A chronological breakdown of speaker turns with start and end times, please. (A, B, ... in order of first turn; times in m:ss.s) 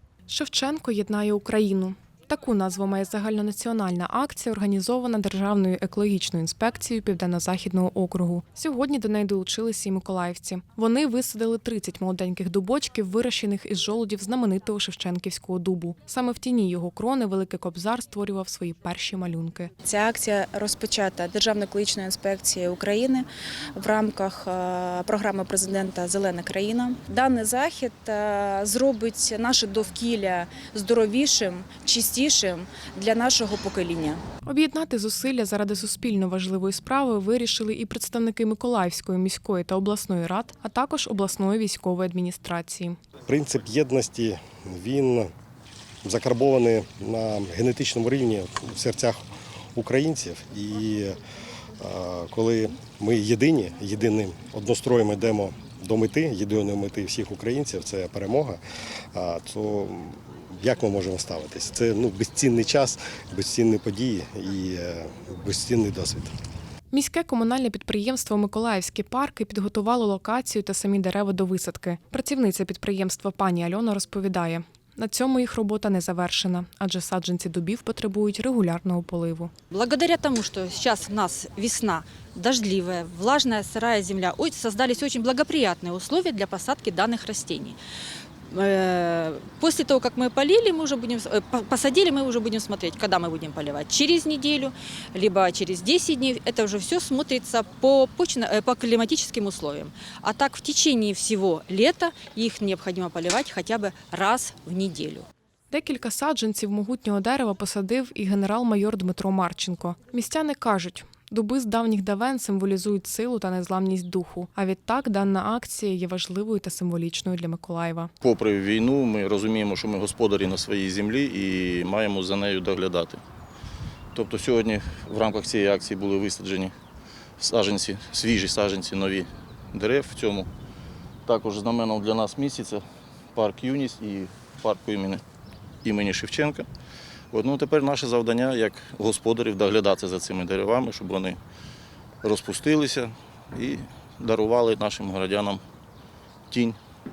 0:00.3-0:19.7 A
0:19.8-0:34.2 B
0:34.4-0:43.0 A
0:43.3-0:45.3 C
0:46.0-0:49.2 C
0:49.7-0:51.2 C
0:51.8-0:58.6 C
0:59.1-1:06.3 C
1:06.9-1:19.5 A
1:19.7-1:27.8 D
1:28.5-1:45.3 D
1:45.7-1:58.1 A
1:58.2-2:03.2 E
2:04.1-2:06.7 E
2:07.4-2:10.5 E
2:11.2-2:12.8 E
2:13.3-2:15.2 E
2:15.8-2:16.7 E
2:17.3-2:21.4 E
2:22.2-2:25.6 E
2:26.5-2:26.8 E